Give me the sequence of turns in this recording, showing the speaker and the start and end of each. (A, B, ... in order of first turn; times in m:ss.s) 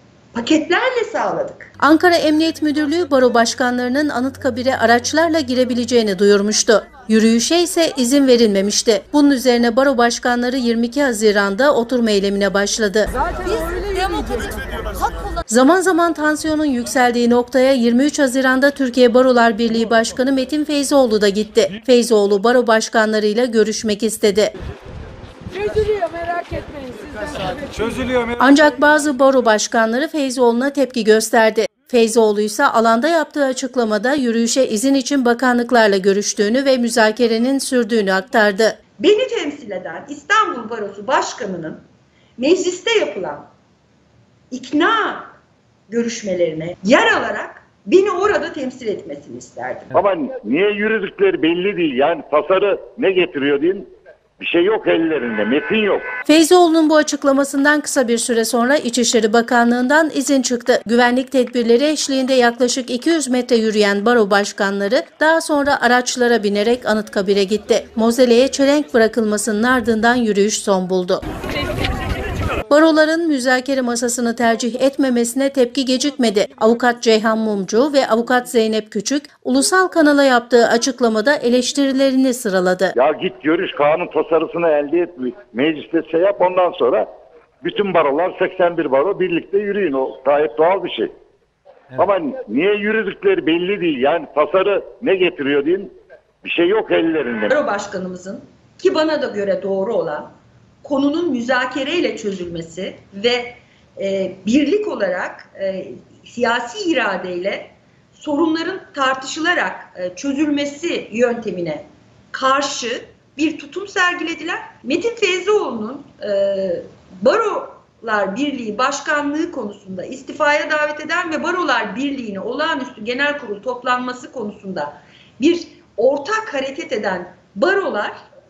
0:00.3-0:01.7 A
0:01.8-0:13.1 B
0:15.5-0:24.5 B
0:28.4-0:38.8 B
0:39.0-0:41.8 A
0:42.4-0:43.5 A
0:44.5-0:45.3 A
0:45.9-0:49.9 A
0:49.9-0:56.1 C
0:56.2-1:11.2 B
1:12.7-1:22.9 B
1:22.9-1:27.1 C
1:27.6-1:31.1 C
1:31.9-1:35.9 C
1:36.4-1:37.5 C
1:37.5-1:40.3 A
1:40.8-2:08.2 A